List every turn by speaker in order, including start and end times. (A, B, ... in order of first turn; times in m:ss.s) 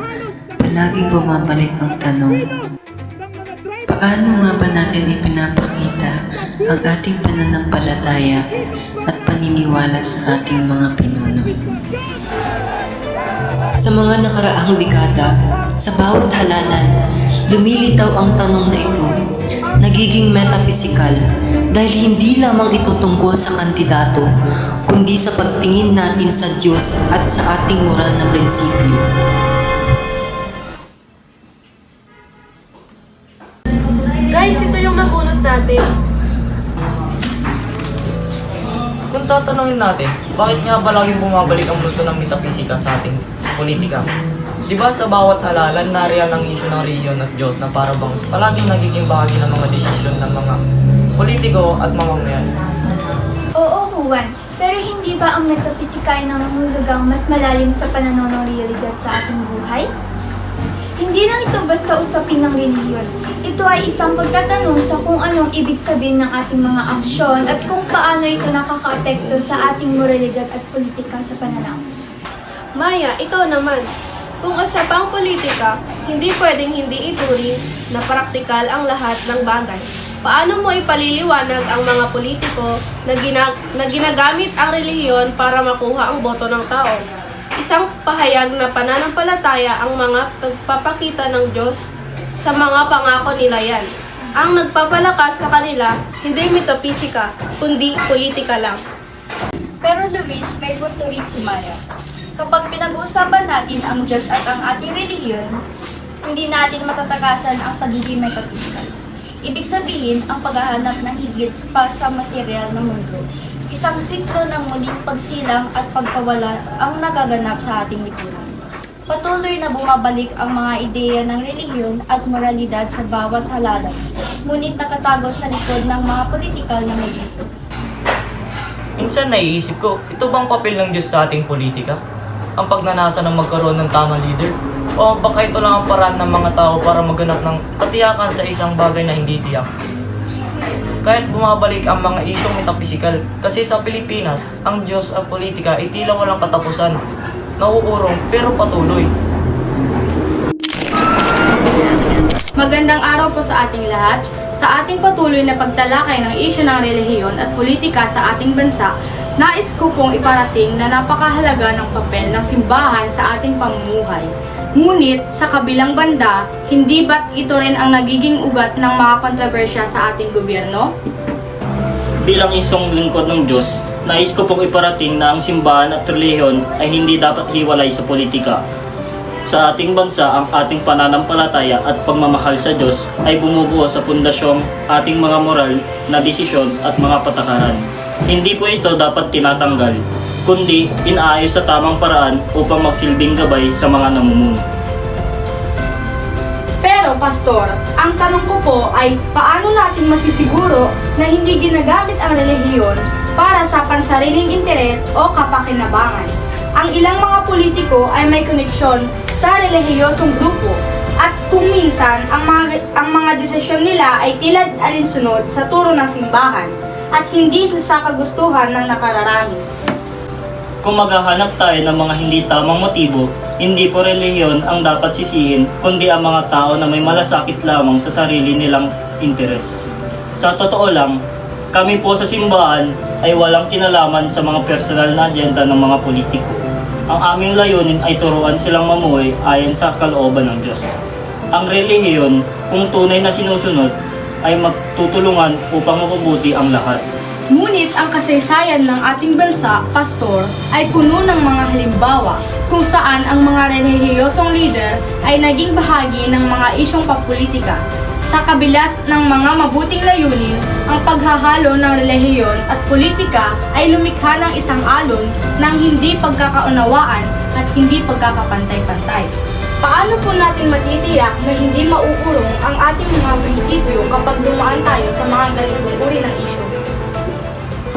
0:00.6-0:02.4 A
0:03.9-0:06.1 A
0:06.7-0:08.4 A
0:09.1-0:11.5 A
0:13.8-0:15.3 A
0:15.8-0:16.9 A
0:17.5-0:19.1 A
0:19.8-0:21.2 A
0:21.7-0:24.3 A
0:24.9-0:29.0 A
0:34.3-0:35.8 B
0:39.1-0:44.1 C
0:44.7-0:50.6 C
0:51.2-0:52.5 C
0:53.6-0:59.9 D
1:01.0-1:11.8 D
1:12.8-1:13.8 B
1:14.4-1:27.0 B
1:27.6-1:31.8 B
1:32.4-1:33.9 B
1:34.4-1:38.8 B
1:39.8-1:41.8 E
1:42.4-1:45.6 E
1:46.2-1:48.9 E
1:49.4-1:58.5 E
1:59.1-2:07.5 E
2:09.0-2:12.0 C
2:12.6-2:19.7 C
2:21.0-2:27.0 C
2:27.6-2:29.1 C
2:32.6-2:50.9 F
2:52.3-2:58.6 G
2:59.5-3:14.6 G
3:16.8-3:39.6 F
3:40.8-3:49.8 G
3:50.4-3:51.2 G
3:51.7-4:00.9 G
4:01.5-4:03.9 G
4:04.4-4:07.0 G
4:07.5-4:29.3 F
4:29.8-4:36.7 F